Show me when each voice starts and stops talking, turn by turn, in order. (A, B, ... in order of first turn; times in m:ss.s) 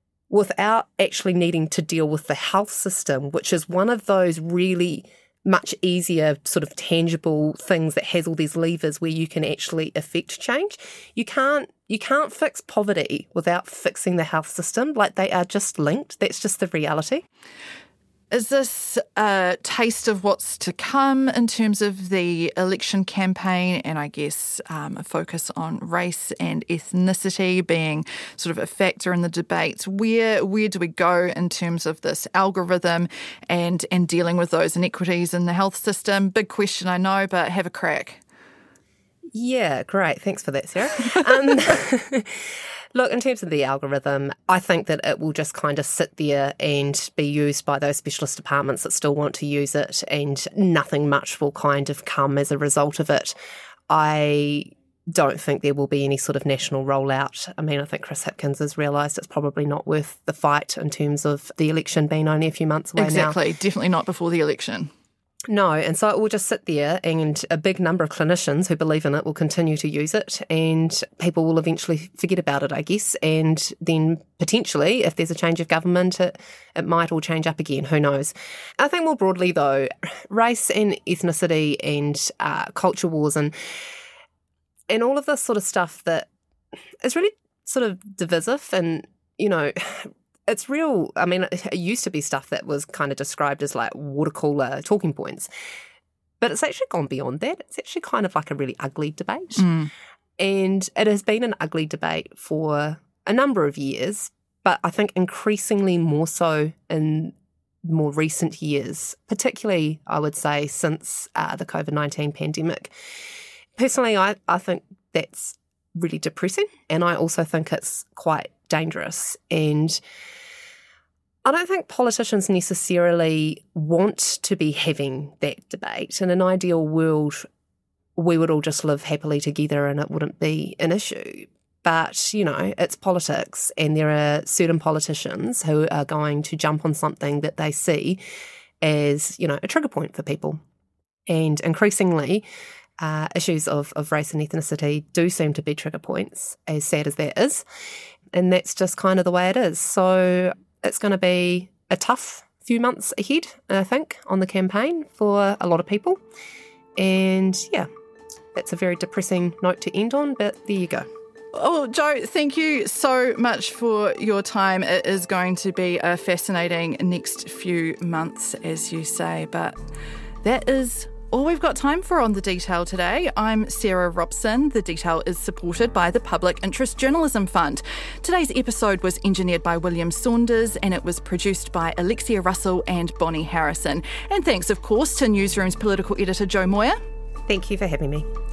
0:00.3-0:17.2 A
0:18.3-0:38.2 B
0:39.3-0:53.4 A
0:53.9-1:03.4 A
1:03.0-1:04.9 B
1:05.5-1:23.5 A
1:24.9-1:26.3 A
1:27.0-1:35.5 A
1:36.4-1:39.7 A
1:39.6-1:39.9 B
1:40.4-1:52.9 A
1:53.8-2:00.0 A
2:01.4-2:07.4 A
2:08.2-2:18.2 A
2:18.8-2:20.6 A
2:21.3-2:22.4 A
2:23.0-2:27.6 A
2:28.3-2:36.2 A
2:37.0-2:37.9 A
2:38.5-2:41.1 A
2:41.5-2:49.8 B
2:50.4-3:07.0 B
3:07.5-3:08.3 A